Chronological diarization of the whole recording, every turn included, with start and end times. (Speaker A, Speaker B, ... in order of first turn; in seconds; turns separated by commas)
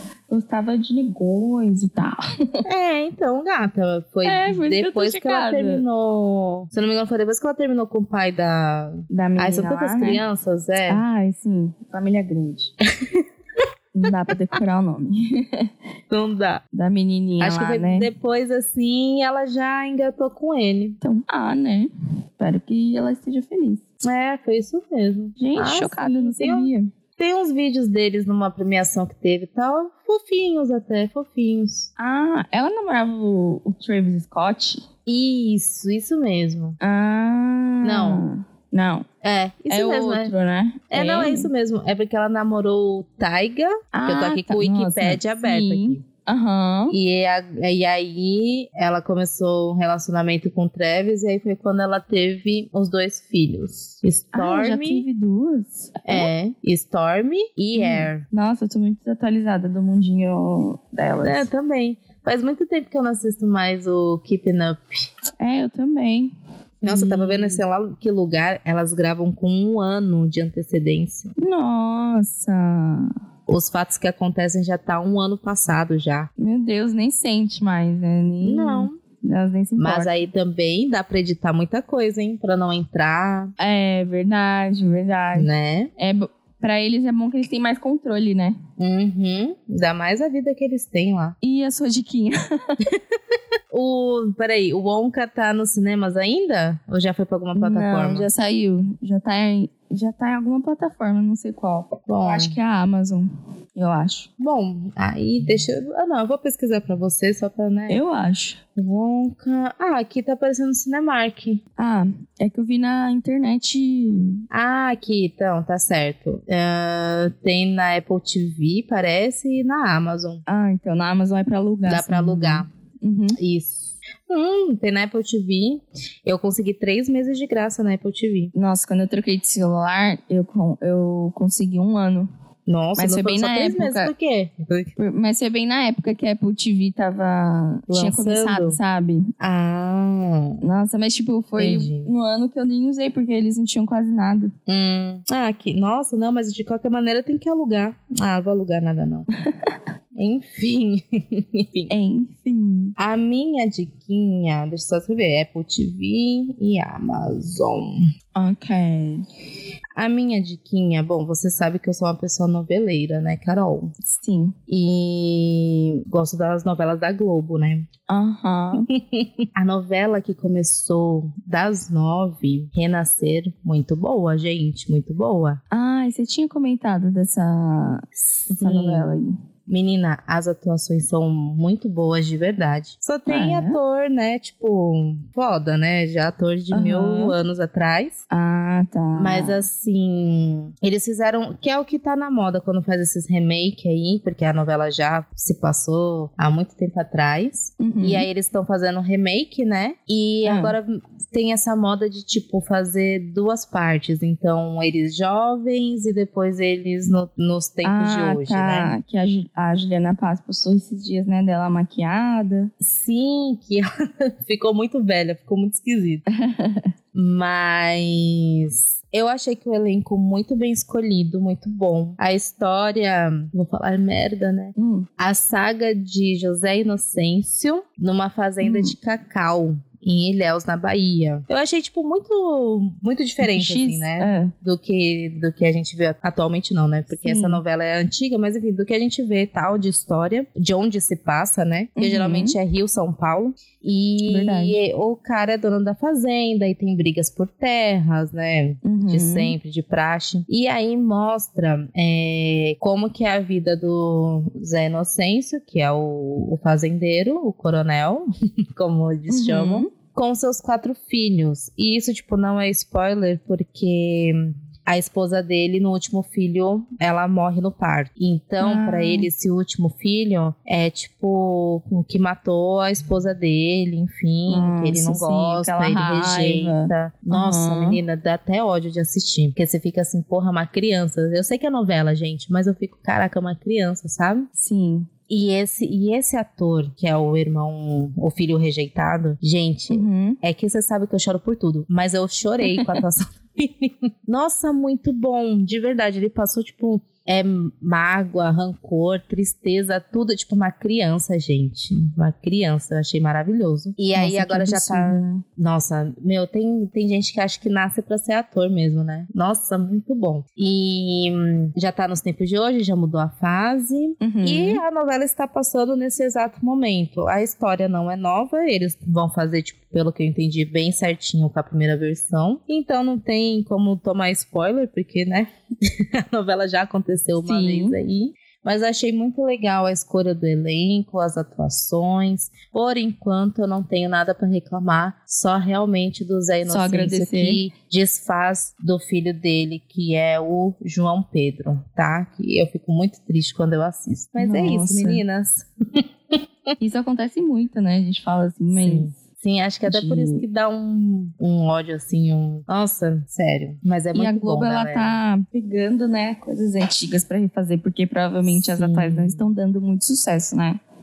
Speaker A: 0.3-2.6, Speaker B: 2.6-11.0, Speaker A: 4.2-5.8, Speaker A: 9.1-10.2, Speaker A: 10.9-12.7, Speaker B: 13.0-13.2, Speaker A: 13.9-15.7, Speaker B: 16.1-16.6, Speaker A: 16.7-18.1, Speaker B: 17.4-21.0, Speaker A: 21.0-23.8, Speaker B: 24.0-31.9, Speaker A: 25.4-26.9, Speaker A: 32.0-34.8, Speaker B: 35.0-36.8, Speaker A: 36.8-39.1, Speaker B: 37.8-38.3, Speaker B: 39.2-40.3, Speaker A: 39.7-41.5, Speaker B: 40.9-46.0, Speaker A: 43.9-46.9, Speaker B: 46.9-55.1, Speaker A: 54.3-56.3, Speaker B: 56.0-58.2, Speaker A: 57.7-61.5, Speaker B: 61.2-65.1, Speaker A: 65.4-67.6, Speaker B: 66.8-71.3, Speaker A: 71.4-73.1, Speaker B: 73.5-76.3, Speaker A: 76.4-80.2, Speaker B: 78.4-79.0, Speaker B: 79.8-83.5, Speaker A: 83.6-88.6, Speaker B: 85.3-85.9, Speaker B: 88.8-91.3, Speaker A: 91.4-92.8, Speaker B: 92.9-93.2, Speaker B: 93.7-98.3, Speaker A: 97.5-104.3, Speaker B: 102.1-102.5, Speaker B: 104.4-108.0, Speaker A: 107.9-108.6, Speaker B: 108.8-111.6, Speaker A: 111.8-114.4, Speaker B: 114.5-120.4, Speaker A: 120.5-123.4, Speaker B: 121.9-122.7, Speaker B: 123.4-128.5, Speaker A: 128.5-132.3, Speaker B: 132.7-134.9, Speaker A: 133.0-134.1, Speaker A: 135.0-139.3, Speaker B: 137.9-138.8, Speaker B: 139.4-140.6, Speaker A: 140.6-144.5, Speaker B: 141.6-142.1, Speaker B: 144.7-149.3, Speaker A: 149.4-149.7, Speaker B: 150.1-151.9, Speaker A: 151.9-152.9, Speaker B: 153.0-158.0, Speaker A: 158.3-159.2, Speaker B: 159.9-163.9, Speaker A: 164.0-164.6, Speaker B: 164.7-167.9, Speaker A: 168.1-168.9, Speaker B: 168.9-175.6, Speaker A: 175.7-179.3, Speaker B: 178.3-179.1, Speaker B: 179.7-188.2, Speaker A: 183.3-183.8, Speaker A: 186.7-187.4, Speaker A: 188.3-189.6, Speaker B: 189.1-208.9, Speaker A: 197.8-198.3, Speaker A: 200.4-200.8, Speaker A: 207.8-212.7, Speaker B: 212.8-216.2, Speaker A: 216.3-216.9, Speaker B: 217.1-284.5, Speaker A: 224.8-225.1, Speaker A: 228.6-228.9, Speaker A: 233.4-234.5, Speaker A: 237.1-237.6, Speaker A: 242.0-242.6, Speaker A: 244.2-244.8, Speaker A: 248.8-249.6, Speaker A: 259.3-259.9, Speaker A: 268.6-269.3, Speaker A: 274.5-278.0, Speaker A: 284.6-285.1, Speaker B: 285.3-346.4, Speaker A: 289.9-290.4, Speaker A: 292.6-292.9, Speaker A: 304.1-305.4, Speaker A: 314.2-314.8, Speaker A: 327.4-327.9, Speaker A: 336.6-337.6, Speaker A: 344.4-345.2, Speaker A: 346.8-349.1, Speaker B: 348.8-355.2, Speaker A: 349.9-350.4, Speaker A: 354.1-360.8, Speaker B: 358.5-359.4